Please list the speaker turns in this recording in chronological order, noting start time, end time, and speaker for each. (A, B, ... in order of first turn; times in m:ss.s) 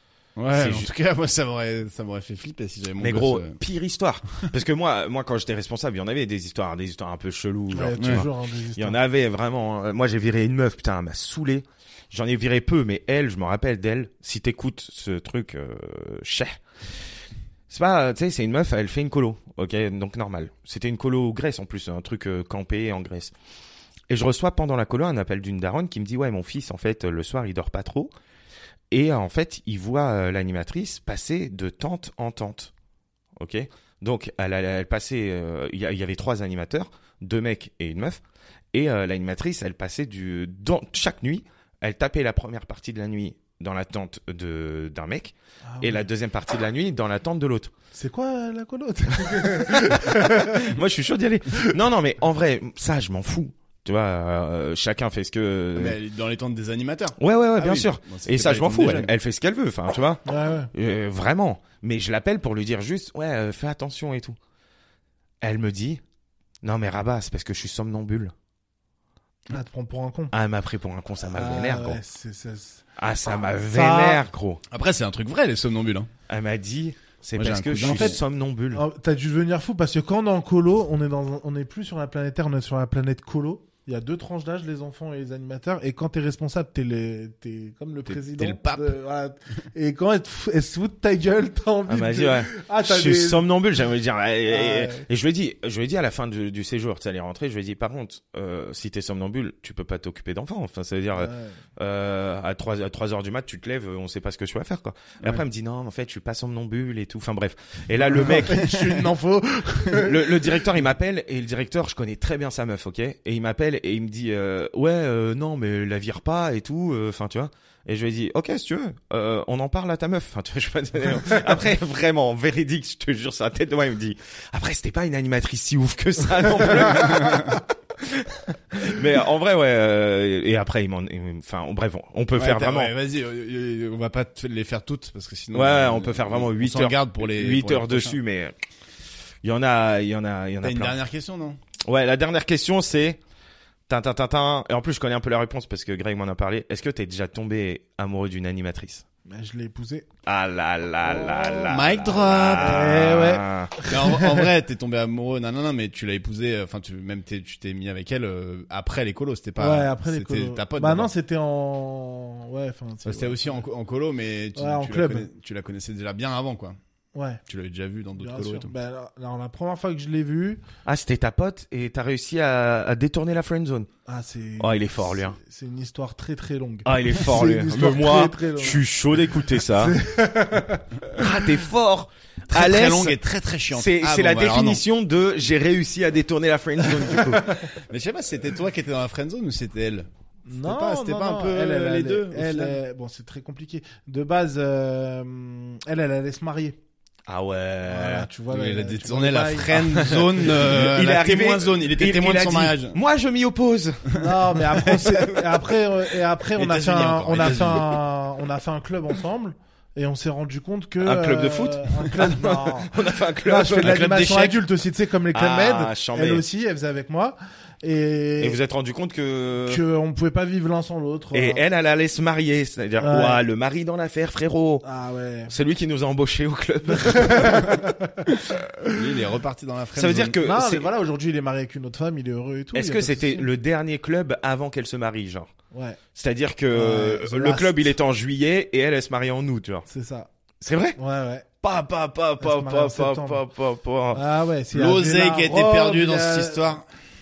0:00.4-0:03.6 A
0:00.5-0:00.9 B
0:03.0-0:16.6 B
0:07.7-0:09.0 C
0:08.0-0:08.2 A
0:17.7-0:23.3 B
0:24.1-0:28.1 B
0:28.9-0:32.7 B
0:33.4-0:38.2 B
0:38.7-0:47.7 B
0:45.7-0:46.0 C
0:47.9-0:50.8 C
0:49.2-0:56.0 B
0:55.8-0:59.1 A
0:57.2-1:00.2 B
1:00.2-1:00.7 C
1:00.7-1:04.4 B
1:05.4-1:06.0 B
1:06.6-1:08.3 B
1:09.5-1:10.3 C
1:10.3-1:12.0 B
1:11.3-1:12.8 C
1:13.0-1:14.6 B
1:13.7-1:14.2 C
1:14.7-1:16.1 A
1:16.3-1:18.8 B
1:17.4-1:18.2 A
1:17.9-1:18.2 C
1:18.7-1:33.5 C
1:28.1-1:28.9 A
1:31.9-1:48.6 B
1:34.5-1:35.0 C
1:41.2-1:41.6 C
1:48.1-1:50.6 C
1:48.4-1:49.0 A
1:49.9-2:12.9 B
2:07.2-2:07.4 A
2:12.4-2:18.2 A
2:15.5-2:18.5 B
2:19.4-2:21.0 B
2:20.6-2:21.6 A
2:21.9-2:23.2 B
2:23.9-2:29.0 B
2:29.3-2:30.0 C
2:30.2-2:33.8 B
2:31.2-2:31.6 C
2:31.6-2:33.0 A
2:32.6-2:34.5 C
2:33.9-2:41.1 A
2:39.6-2:43.6 C
2:43.0-2:46.8 A
2:44.6-2:45.3 C
2:47.1-2:47.4 C
2:47.5-2:48.7 A
2:48.2-2:50.6 C
2:50.8-2:53.9 B
2:54.1-2:58.9 C
2:54.6-2:55.4 B
2:56.8-3:00.0 B
2:59.6-3:01.3 C
3:01.1-3:03.2 B
3:02.5-3:04.8 A
3:03.7-3:07.6 B
3:07.2-3:07.6 C
3:07.7-3:12.8 A
3:10.4-3:16.8 C
3:17.3-3:18.3 B
3:17.9-3:19.9 C
3:18.5-3:23.0 A
3:19.8-3:24.2 B
3:24.1-3:25.6 A
3:24.1-3:38.6 C
3:26.5-3:28.0 A
3:31.0-3:34.6 B
3:35.3-3:36.4 B
3:38.4-3:39.8 B
3:39.7-3:41.6 C
3:41.3-3:44.8 B
3:43.0-3:43.4 C
3:44.8-3:45.5 C
3:45.5-3:47.9 B
3:46.9-3:49.1 C
3:48.9-3:50.4 A
3:50.0-3:50.9 B
3:50.4-3:53.5 C
3:52.7-3:55.5 B
3:55.7-3:56.0 C
3:56.1-3:59.9 B
3:56.7-3:57.9 C
3:59.9-4:00.3 C
4:00.6-4:01.0 B
4:01.0-4:01.4 C
4:01.6-4:04.2 B
4:02.4-4:03.4 C
4:04.1-4:06.8 C
4:04.7-4:06.8 A